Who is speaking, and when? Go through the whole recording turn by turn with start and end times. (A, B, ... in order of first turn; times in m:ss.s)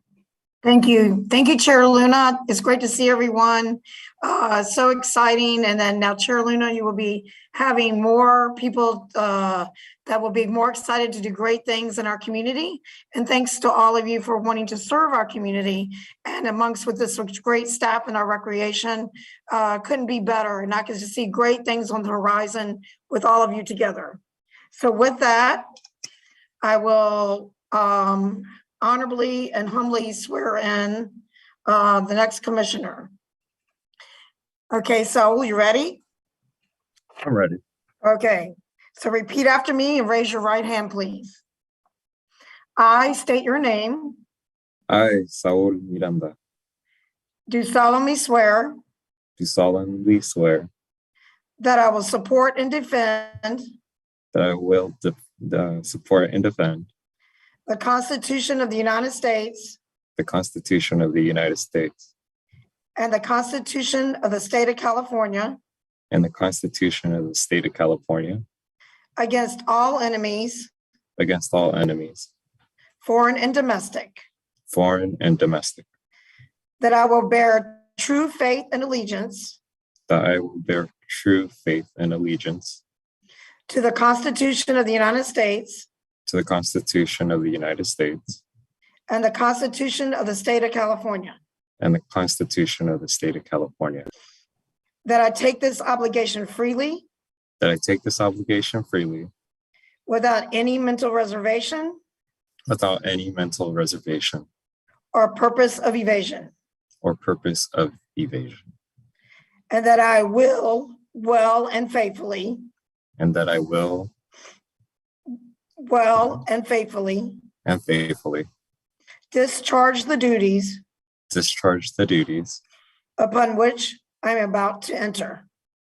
0:00.6-0:24.2 A
0:24.7-0:25.6 A
0:26.6-0:33.1 A
0:34.7-0:36.0 A
0:37.2-0:37.6 B
0:38.0-0:41.4 A
0:42.8-0:44.2 A
0:44.9-0:46.4 B
0:47.5-0:48.8 A
0:49.4-0:50.7 B
0:51.6-0:53.6 A
0:54.3-0:56.9 B
0:57.7-0:59.8 A
1:00.2-1:02.1 B
1:03.0-1:05.6 A
1:06.1-1:08.4 B
1:09.2-1:10.7 A
1:11.2-1:12.3 B
1:13.0-1:14.2 A
1:14.7-1:15.8 B
1:16.8-1:19.6 A
1:20.1-1:22.8 B
1:23.7-1:25.9 A
1:26.2-1:28.4 B
1:29.1-1:31.4 A
1:31.8-1:34.1 B
1:35.0-1:37.0 A
1:37.6-1:39.3 B
1:40.0-1:42.0 A
1:42.7-1:44.5 B
1:45.1-1:46.5 A
1:47.0-1:48.6 B
1:49.7-1:52.6 A
1:53.2-1:54.1 B
1:55.8-1:57.4 A
1:57.6-1:58.5 B
1:59.3-2:00.8 A
2:01.3-2:02.6 B
2:03.2-2:05.4 A